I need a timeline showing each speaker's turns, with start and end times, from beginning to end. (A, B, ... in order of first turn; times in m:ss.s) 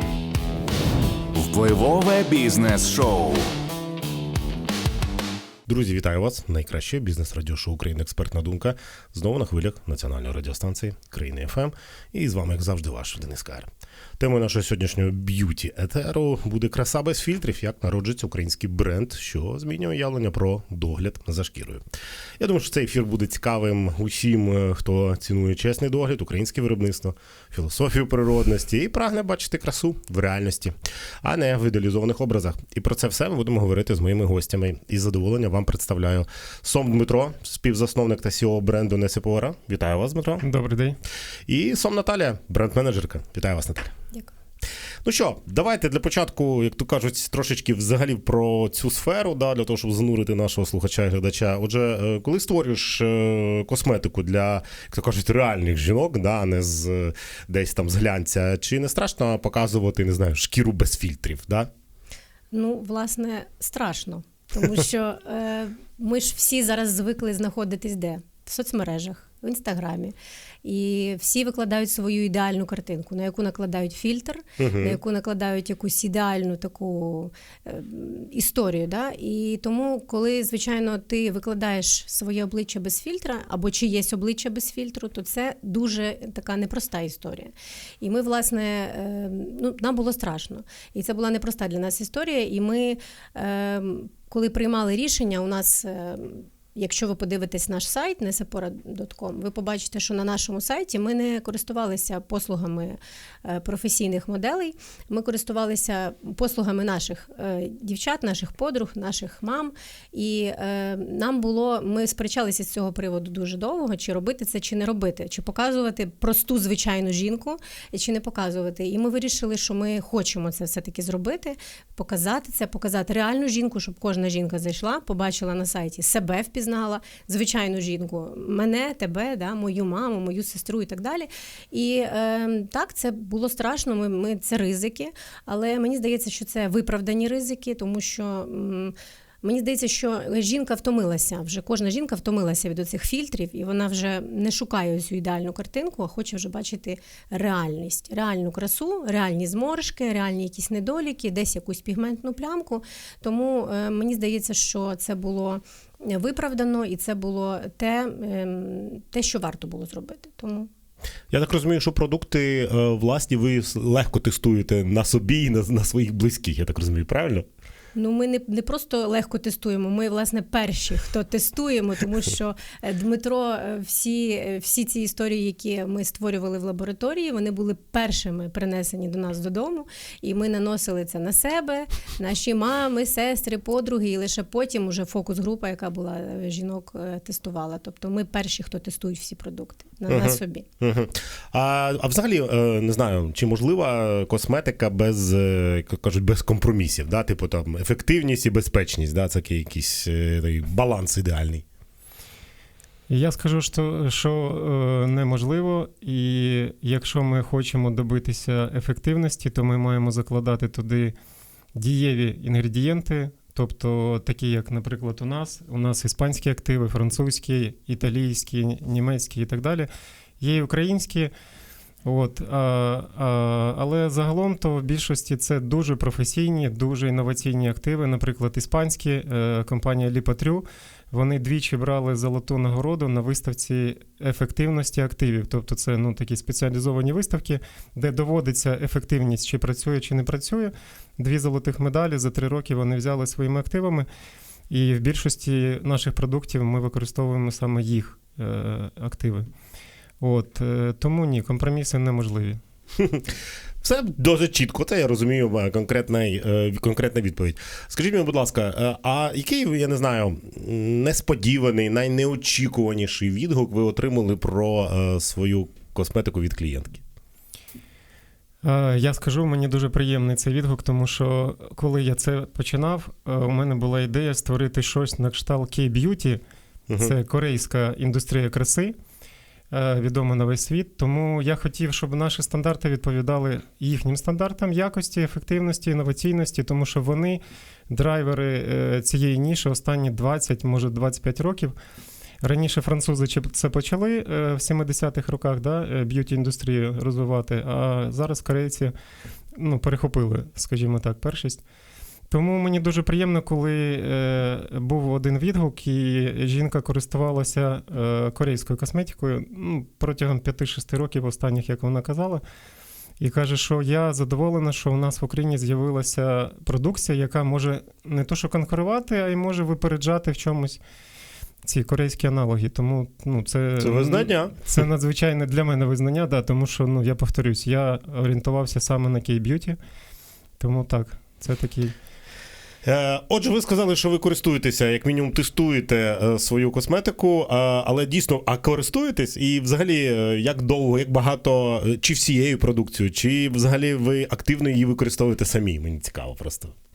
0:01.3-0:03.5 A
0:05.6-0:21.8 B
0:22.4-0:40.4 B
0:40.4-0:41.0 C
0:41.5-0:43.9 B
0:45.0-1:01.7 B
1:02.5-2:40.7 D
1:14.6-1:15.0 B
2:41.3-2:47.4 B
2:47.9-3:10.6 D
3:10.1-3:21.6 B
3:23.1-3:31.1 C
3:31.8-3:41.3 C
3:42.0-4:04.1 C
4:04.7-4:09.5 C
4:10.2-4:12.6 C
4:13.0-4:27.0 B
4:28.6-4:36.4 C
4:36.9-4:37.1 B
4:37.0-4:38.9 C
4:39.7-4:51.7 C
4:52.4-4:58.9 C
4:59.5-5:01.6 C
5:02.3-5:12.4 C
5:13.2-5:20.8 C
5:21.6-5:29.8 C
5:23.8-5:24.8 B
5:30.6-5:31.9 C
5:32.8-5:46.7 B